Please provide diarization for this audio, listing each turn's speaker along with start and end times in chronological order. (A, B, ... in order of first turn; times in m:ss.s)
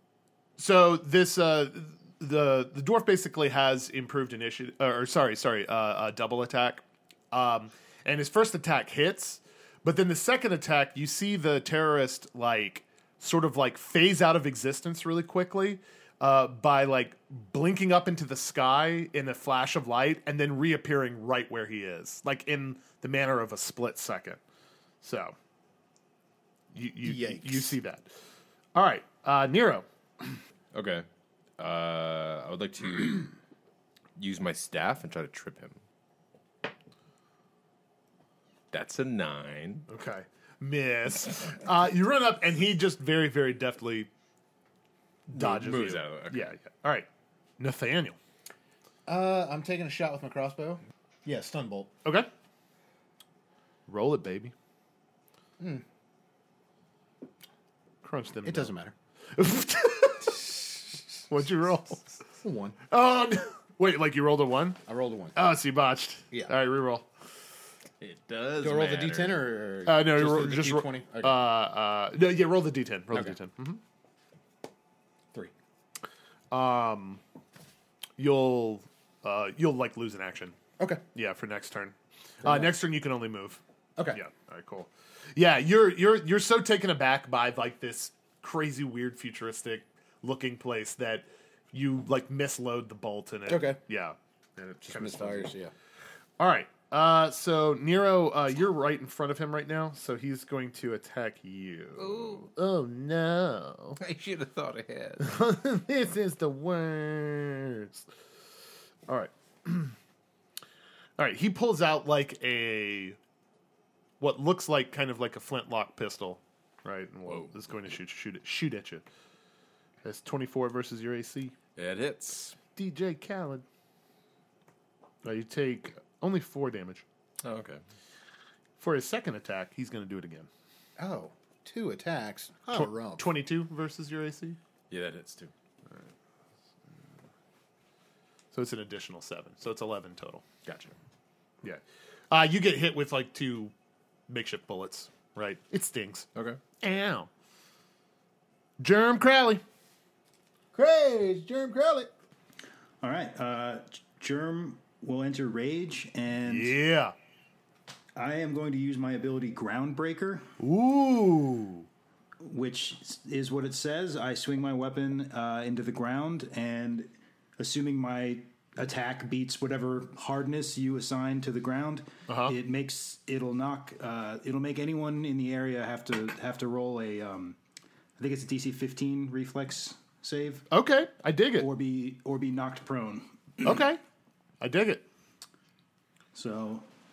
0:00.6-0:24.4 A
0:25.0-0:25.4 A
0:26.7-0:28.1 A
0:27.0-0:27.8 B
0:28.8-0:30.3 A
0:30.7-0:31.1 C
0:31.6-0:33.3 C
0:34.2-0:35.8 C
0:38.7-0:39.9 C
0:39.9-0:44.1 A
0:45.3-0:47.1 A
0:45.3-0:46.5 C
0:47.6-0:48.2 A
0:49.1-0:51.9 B
0:53.9-0:54.5 A
0:58.0-0:58.7 A
0:58.4-0:59.0 B
0:59.4-1:02.0 A
1:02.4-1:02.8 B
1:02.9-1:04.8 A
1:04.9-1:05.4 B
1:05.4-1:07.1 A
1:08.0-1:09.5 C
1:08.6-1:11.4 B
1:09.9-1:13.8 A
1:16.5-1:17.2 A
1:18.2-1:20.6 A
1:21.1-1:23.6 A
1:22.4-1:22.7 B
1:24.1-1:35.6 A
1:33.5-1:33.8 B
1:34.9-1:35.7 B
1:36.4-1:44.0 A
1:42.0-1:42.5 C
1:44.0-1:45.4 C
1:45.2-1:48.0 A
1:49.1-1:50.0 A
1:51.2-1:53.2 A
1:54.2-1:59.1 A
1:57.3-1:57.6 C
2:00.0-2:01.5 A
2:01.8-2:02.6 C
2:02.8-2:03.6 A
2:05.2-2:07.0 A
2:07.4-2:07.8 C
2:08.8-2:10.5 A
2:11.0-2:13.3 B
2:12.7-2:14.6 A
2:14.9-2:15.5 C
2:18.5-2:20.4 A
2:20.6-2:20.9 C
2:21.6-2:23.7 A
2:24.3-2:26.3 A
2:26.8-2:27.3 A
2:28.8-2:29.6 A
2:30.7-2:32.1 B
2:33.0-2:36.8 D
2:36.5-2:37.1 A
2:38.2-2:40.5 D
2:40.6-2:41.9 A
2:42.4-2:57.6 D
2:52.3-2:52.6 A
2:58.2-3:00.7 D
3:00.7-3:01.7 A
3:01.6-3:03.8 D
3:03.6-3:04.0 A
3:04.6-3:05.0 A
3:06.4-3:06.9 D